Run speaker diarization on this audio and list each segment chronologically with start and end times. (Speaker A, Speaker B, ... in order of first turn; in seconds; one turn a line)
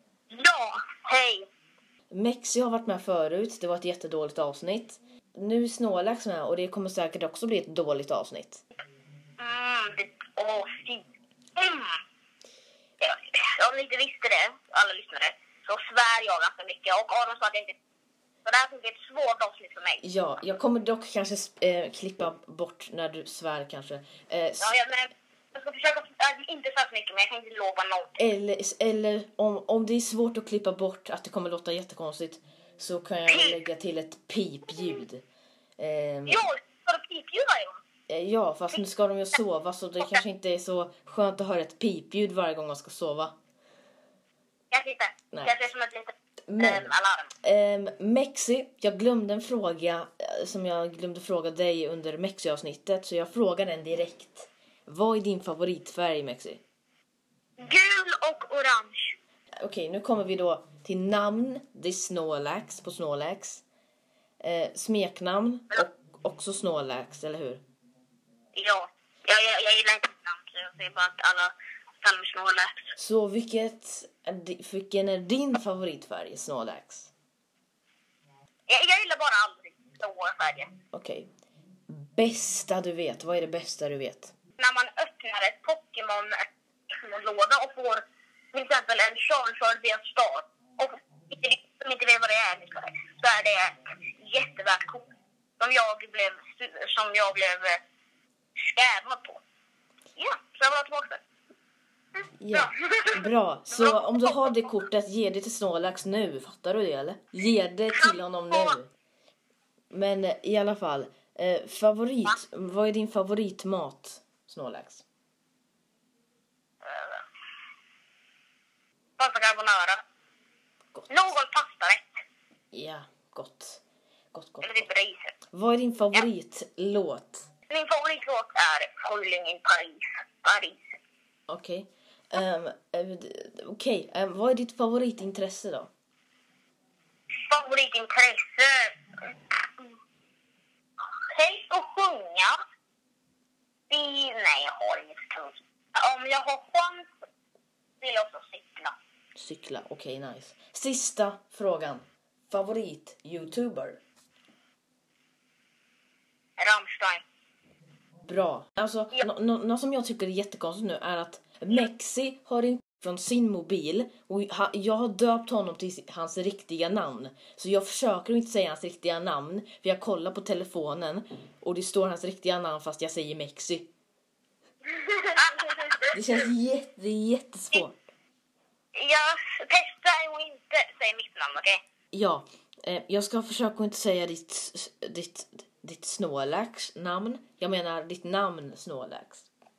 Speaker A: 0.3-1.4
Speaker B: 2.1-8.6
Speaker A: 9.4-11.0
Speaker A: 11.6-12.0
Speaker A: 13.0-17.8
Speaker A: 18.4-20.0
Speaker B: 20.0-24.8
Speaker A: 24.6-28.1
Speaker B: 28.2-35.2
Speaker A: 33.3-33.6
Speaker B: 35.8-36.5
Speaker A: 36.3-37.8
Speaker B: 38.1-43.3
Speaker A: 44.7-47.3
Speaker B: 45.3-45.6
Speaker B: 46.5-56.6
Speaker A: 57.6-59.1
Speaker B: 59.6-63.6
Speaker B: 64.4-67.6
Speaker A: 68.5-72.9
Speaker B: 73.0-77.1
Speaker A: 78.7-80.7
Speaker B: 80.9-81.3
Speaker B: 81.9-84.3
Speaker A: 84.6-86.4
Speaker A: 86.9-95.0
Speaker A: 95.6-97.8
Speaker A: 98.7-99.4
Speaker A: 100.2-101.2
Speaker B: 102.4-108.9
Speaker A: 102.5-104.7
Speaker A: 107.9-108.8
Speaker B: 109.9-115.0
Speaker A: 116.8-117.2
Speaker A: 119.2-120.0
Speaker A: 121.1-122.2
Speaker B: 122.7-123.8
Speaker B: 124.3-124.9
Speaker A: 124.6-125.3
Speaker B: 125.5-127.5
Speaker A: 127.7-130.8
Speaker B: 131.5-135.9
Speaker A: 137.5-140.0
Speaker A: 141.3-142.6
Speaker A: 143.9-147.1
Speaker A: 148.0-148.9
Speaker B: 149.3-154.0
Speaker A: 156.6-157.2
Speaker B: 158.2-173.9
Speaker A: 175.0-176.0
Speaker B: 176.1-178.1
Speaker A: 178.9-181.8
Speaker B: 182.1-189.5